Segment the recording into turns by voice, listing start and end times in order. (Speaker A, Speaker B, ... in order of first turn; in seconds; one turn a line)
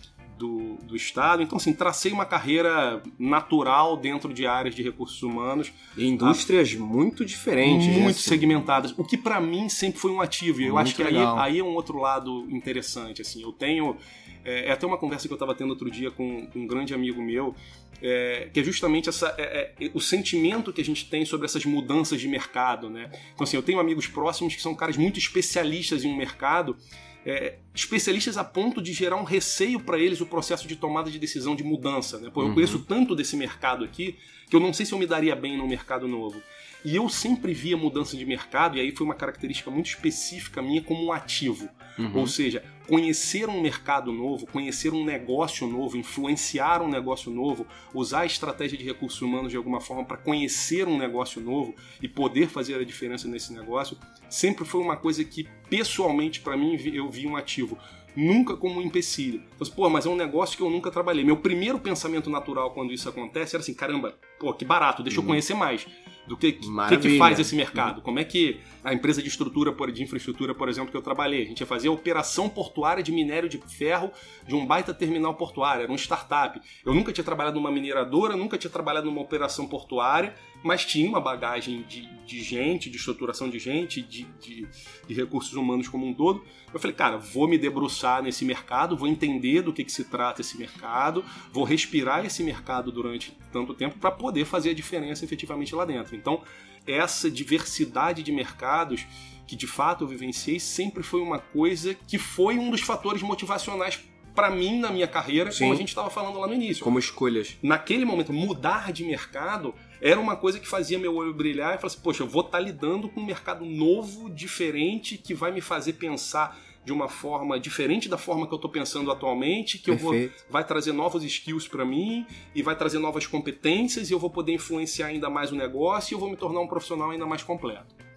Speaker A: 0.3-6.4
Speaker B: 6.0-8.6
Speaker A: 7.6-106.9
Speaker B: 10.6-11.5
Speaker B: 32.4-32.8
Speaker B: 42.0-42.3
Speaker B: 65.1-65.4
Speaker B: 66.6-67.8
Speaker B: 105.5-105.8
Speaker B: 106.8-107.6
Speaker A: 107.6-128.0
Speaker B: 119.9-120.3